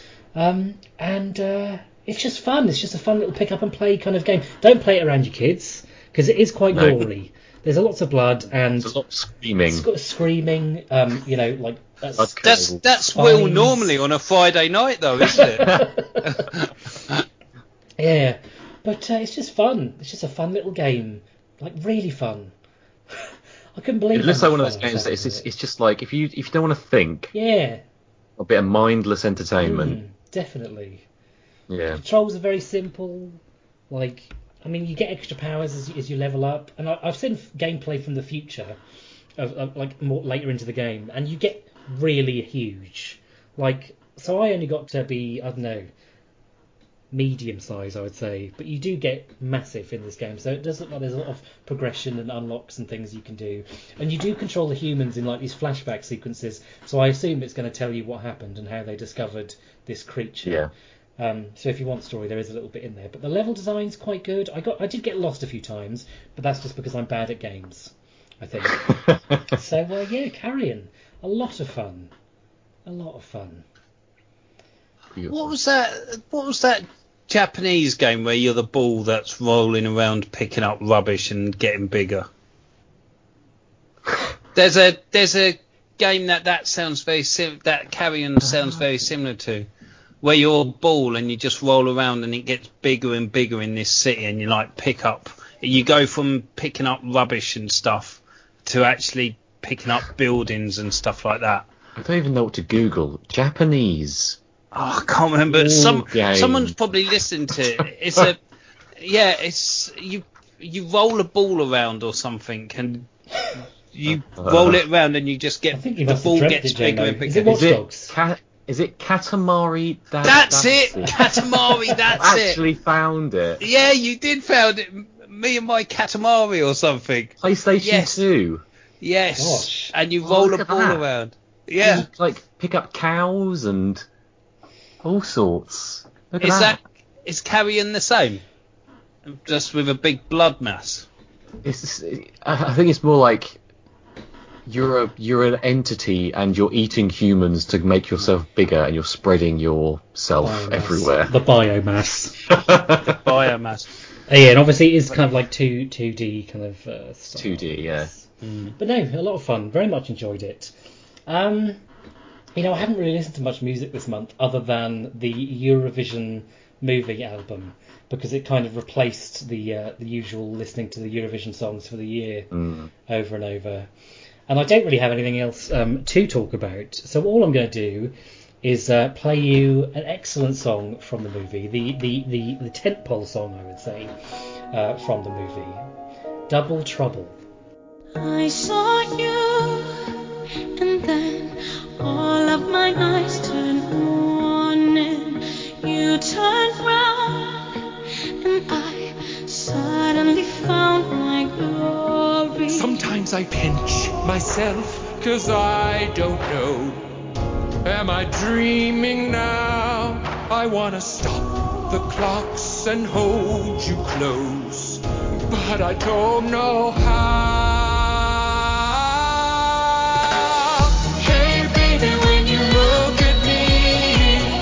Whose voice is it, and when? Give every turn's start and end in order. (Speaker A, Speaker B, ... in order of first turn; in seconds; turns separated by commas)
Speaker A: 0.4-8.9, Speaker B: 6.7-7.1, Speaker B: 8.8-9.9, Speaker A: 9.7-12.4, Speaker B: 12.2-12.8, Speaker C: 12.4-15.8, Speaker A: 13.2-13.9, Speaker A: 15.3-16.2, Speaker C: 16.5-17.2, Speaker A: 18.0-22.5, Speaker A: 23.1-25.5, Speaker B: 24.1-27.3, Speaker A: 27.3-27.8, Speaker B: 28.4-30.0, Speaker A: 29.6-31.1, Speaker B: 31.7-32.0, Speaker A: 31.9-38.8, Speaker A: 39.4-45.9, Speaker A: 47.1-60.7, Speaker B: 60.4-60.7, Speaker A: 61.2-72.1, Speaker B: 68.9-69.4, Speaker A: 72.9-73.6, Speaker B: 75.2-75.5, Speaker C: 75.3-82.3, Speaker C: 84.5-89.7, Speaker B: 88.4-88.8, Speaker C: 90.2-101.7, Speaker B: 102.0-104.4, Speaker C: 104.7-108.4, Speaker B: 105.6-106.7, Speaker C: 109.0-113.1, Speaker C: 113.9-117.6, Speaker B: 114.1-114.8, Speaker A: 115.7-118.1, Speaker B: 117.4-121.2, Speaker C: 120.2-122.6, Speaker B: 122.2-123.6, Speaker C: 123.6-128.2, Speaker B: 127.4-128.6, Speaker C: 129.0-132.1, Speaker A: 129.4-129.9, Speaker B: 130.2-131.0, Speaker B: 131.8-134.0, Speaker B: 135.0-136.8, Speaker C: 136.4-138.4, Speaker C: 139.2-141.1, Speaker B: 141.6-143.6, Speaker B: 144.7-151.3, Speaker A: 150.4-152.4, Speaker B: 152.5-153.3, Speaker C: 153.0-153.9, Speaker A: 154.3-158.2, Speaker B: 157.3-158.1, Speaker C: 158.4-158.7, Speaker A: 158.8-160.7, Speaker A: 161.3-161.8, Speaker A: 162.5-172.5, Speaker B: 172.5-172.9, Speaker A: 173.1-173.9, Speaker A: 174.5-184.1, Speaker A: 184.7-185.9, Speaker A: 186.5-187.4, Speaker D: 188.2-189.9, Speaker D: 190.8-197.7, Speaker D: 198.4-203.0, Speaker E: 202.7-207.1, Speaker E: 207.8-224.5, Speaker D: 221.4-223.2